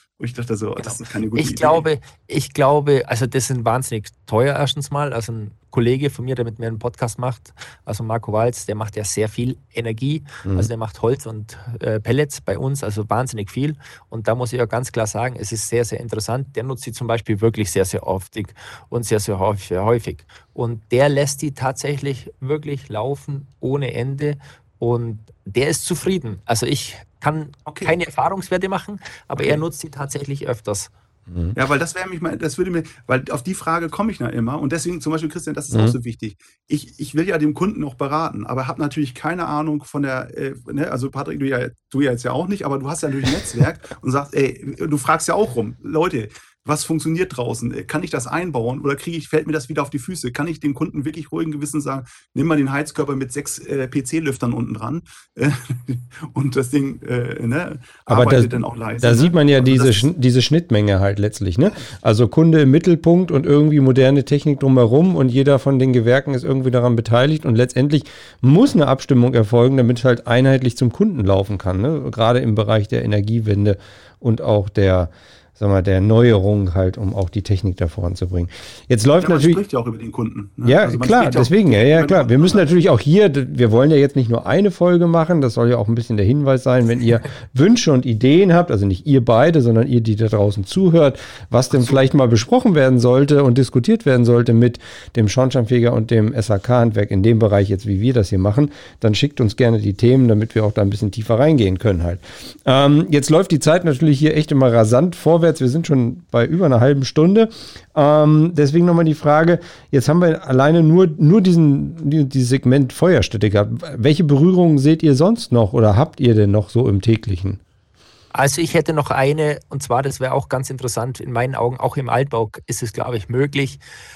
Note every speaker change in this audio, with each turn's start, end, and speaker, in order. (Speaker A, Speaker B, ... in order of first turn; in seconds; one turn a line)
Speaker A: 0.2-1.9
Speaker B: 0.8-30.9
Speaker A: 27.7-27.9
Speaker C: 31.3-31.6
Speaker A: 31.6-60.1
Speaker C: 58.1-79.6
Speaker A: 79.2-82.7
Speaker C: 80.6-117.6
Speaker B: 118.3-123.8